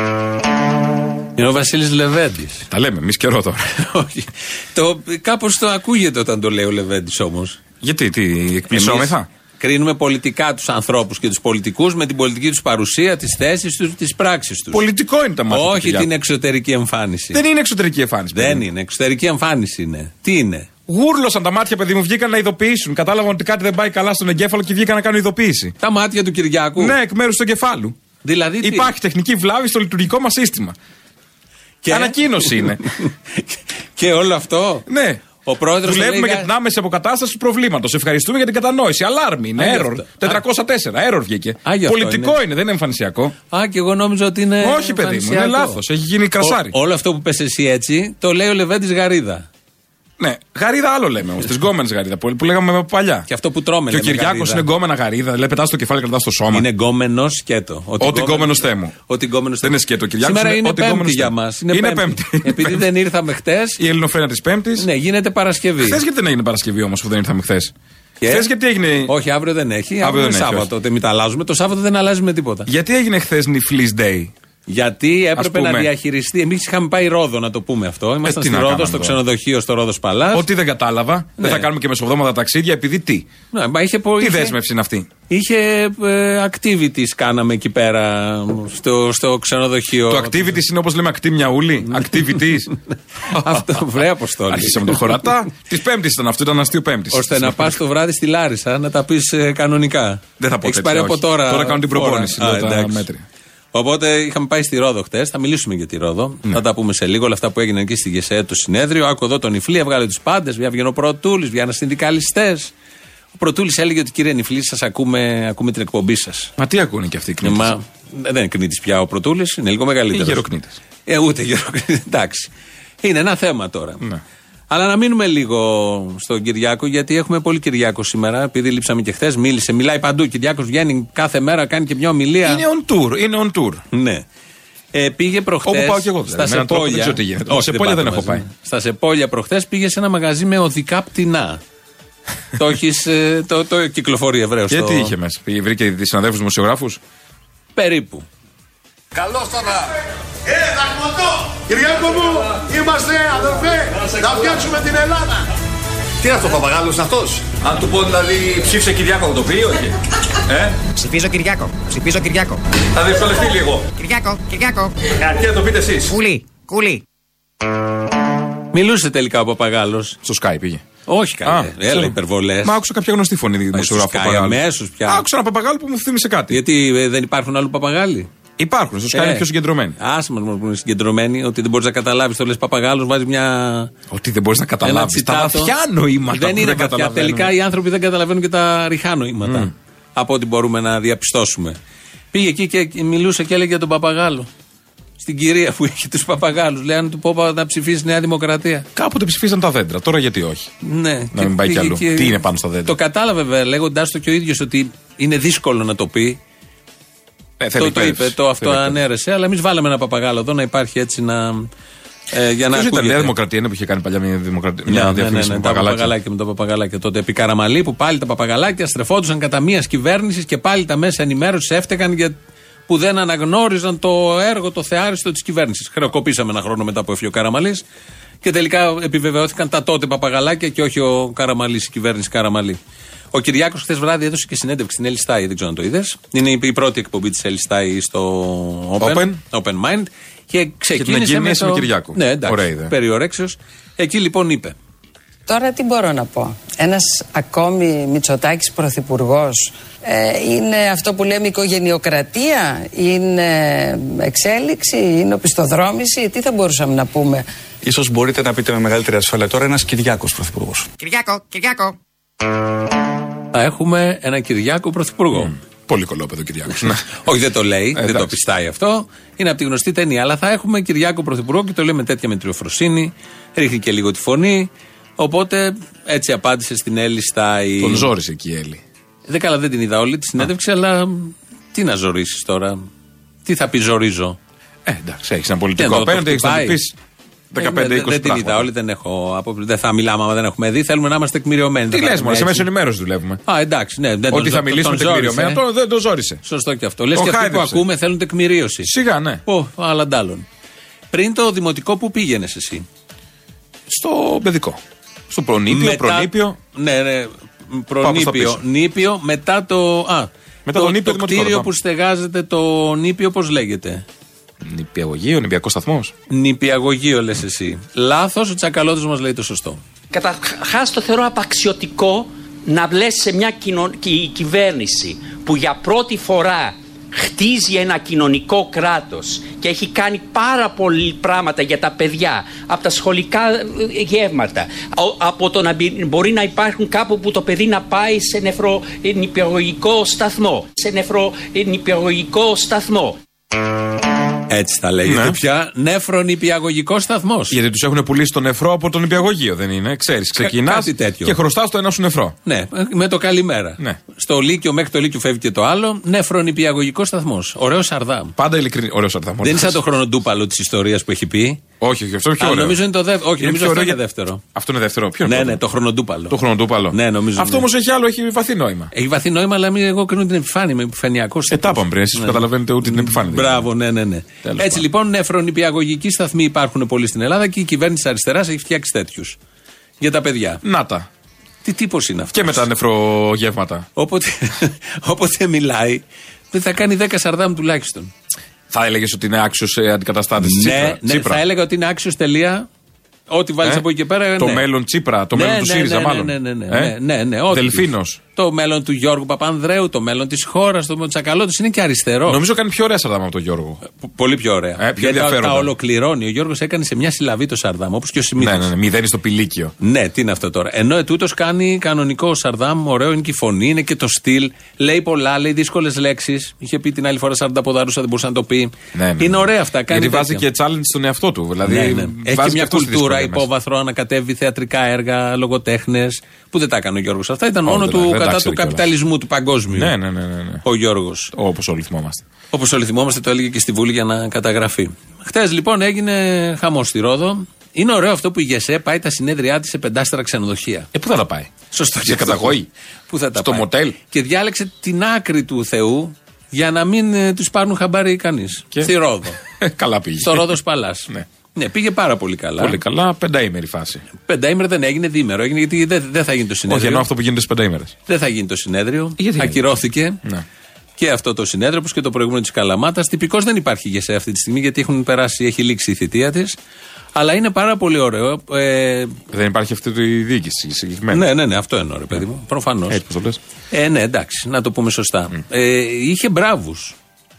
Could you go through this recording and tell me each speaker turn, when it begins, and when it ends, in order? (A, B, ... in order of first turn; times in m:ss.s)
0:01.4-0:02.6 A
0:02.7-0:03.8 B
0:03.8-0:07.6 A
0:07.8-0:09.3 B
0:08.7-0:14.8 A
0:14.7-0:16.1 B
0:15.5-0:17.4 A
0:17.3-0:18.6 B
0:18.3-0:20.7 A
0:20.9-0:25.7 B
0:25.8-0:26.9 A
0:26.8-0:28.0 B
0:28.2-0:28.9 A
0:28.6-0:30.8 B
0:31.8-0:34.9 A
0:31.9-0:32.8 B
0:34.9-0:35.2 B
0:35.4-0:36.5 A
0:35.8-0:43.3 B
0:39.6-0:40.4 A
0:41.6-0:42.4 A
0:43.5-0:45.8 A
0:44.6-0:46.7 B
0:46.4-0:49.5 A
0:50.2-0:53.3 B
0:53.3-0:54.7 A
0:53.9-0:56.7 B
0:56.5-1:03.8 A
0:58.0-0:58.9 B
0:59.6-1:02.8 B
1:03.8-1:04.9 B
1:04.8-1:06.0 A
1:05.8-1:07.7 B
1:08.2-1:08.5 A
1:08.2-1:09.1 B
1:09.0-1:12.7 A
1:10.0-1:10.7 B
1:12.6-1:14.3 B
1:14.7-1:20.5 A
1:15.4-1:15.9 B
1:18.2-1:19.2 B
1:20.3-1:23.3 B
1:21.4-1:21.7 A
1:23.5-1:24.6 A
1:24.2-1:25.1 B
1:25.3-1:30.6 A
1:30.1-1:32.7 B
1:32.0-1:32.4 A
1:33.3-1:35.3 A
1:33.3-1:33.8 B
1:34.5-1:37.8 B
1:37.1-1:43.1 A
1:40.4-1:43.2 B
1:43.7-1:52.7 A
1:53.3-1:56.5 A
1:56.6-1:57.7 B
1:57.4-2:00.4 A
2:00.1-2:00.8 B
2:01.0-2:02.5 A
2:03.0-2:04.0 A
2:04.7-2:12.6 A
2:12.4-2:13.8 B
2:13.9-2:14.2 A
2:14.9-2:21.6 A
2:15.6-2:18.4 B
2:22.6-2:25.1 A
2:24.7-2:27.0 B
2:27.7-2:28.2 A
2:29.1-2:29.9 C
2:30.5-2:35.5 C
2:37.5-2:39.9 B
2:40.9-2:42.6 D
2:43.0-2:43.8 B
2:43.9-2:44.9 D
2:45.2-2:46.1 B
2:46.0-2:47.0 D
2:48.7-2:50.2 A
2:50.2-2:50.8 B
2:51.0-2:52.8 A
2:51.4-2:56.6 B
2:53.7-2:55.2 A
2:56.5-2:58.3 A
2:58.6-3:00.0 B
2:59.1-3:03.9 A
3:04.1-3:07.5 B
3:04.8-3:05.7 A
3:06.2-3:11.8 A
3:09.4-3:09.7 B
3:12.3-3:14.5 A
3:15.2-3:18.9 A
3:19.0-3:20.7 B
3:20.8-3:26.4 A
3:21.3-3:23.0 B
3:27.6-3:29.0 B
3:27.8-3:31.7 A
3:32.3-3:33.3 A
3:32.7-3:36.1 B
3:34.9-3:42.3 A
3:42.9-3:47.8 A
3:48.4-3:52.8 A
3:53.3-4:04.7 A
3:59.0-3:59.4 B
4:00.9-4:02.9 B
4:05.5-4:17.4 E
4:17.8-4:20.9 F
4:21.0-4:22.0 D
4:23.5-4:25.5 A
4:25.3-4:27.1 B
4:26.8-4:38.1 A
4:28.0-4:28.3 B
4:37.8-4:38.8 B
4:39.3-4:42.9 A
4:43.4-4:44.4 A
4:44.8-4:47.0 B
4:45.8-4:46.8 A
4:47.5-4:48.7 B
4:47.6-4:52.7 A
4:51.9-4:53.4 B
4:53.4-4:55.6 A
4:54.3-4:56.4 B
4:56.4-4:58.9 A
4:57.1-4:57.8 B
4:58.8-4:59.4 B
4:59.4-5:00.4 A
5:01.1-5:02.8 A
5:03.9-5:06.6 B
5:05.7-5:14.0 A
5:08.0-5:08.6 B
5:10.6-5:11.7 B
5:14.6-5:16.1 B
5:16.3-5:19.8 A
5:20.1-5:43.2 G
5:44.5-5:47.6 A
5:45.0-5:45.4 B
5:47.5-5:52.4 B
5:50.4-5:51.4 A
5:52.4-5:58.3 A
5:58.4-5:59.8 B
5:59.4-6:01.6 A
6:01.8-6:02.8 B
6:02.4-6:04.4 A
6:03.4-6:05.6 B
6:05.2-6:06.4 A
6:06.3-6:08.9 B
6:06.9-6:07.6 A
6:08.9-6:19.4 A
6:11.5-6:13.7 B
6:14.4-6:14.8 B
6:20.0-6:20.6 A
6:20.6-6:21.1 B
6:21.6-6:22.6 A
6:22.3-6:23.9 B
6:24.0-6:28.1 A
6:28.7-6:31.4 B
6:30.4-6:32.7 A
6:33.3-6:34.7 A
6:33.6-6:36.9 B
6:35.3-6:42.4 A
6:37.5-6:38.2 B
6:42.3-6:43.8 B
6:44.0-6:48.7 A
6:44.8-6:45.7 B
6:48.4-6:49.7 B
6:49.8-7:00.4 A
6:58.9-7:03.5 B
7:01.6-7:09.9 A
7:07.6-7:08.9 B
7:09.7-7:10.6 B
7:10.6-7:11.3 A
7:11.3-7:12.2 B
7:12.5-7:20.9 A
7:20.9-7:22.7 B
7:21.7-7:22.6 A
7:23.1-7:29.4 A
7:23.3-7:24.0 B
7:29.5-7:30.6 B
7:30.2-7:32.8 A
7:32.6-7:34.0 B
7:34.2-7:37.1 A
7:36.7-7:37.9 B
7:38.1-7:40.2 A
7:39.2-7:40.4 B
7:41.0-7:46.6 A
7:47.1-7:49.2 A
7:49.3-7:51.3 B
7:51.1-7:53.0 A
7:52.9-7:53.4 B
7:53.7-7:57.0 A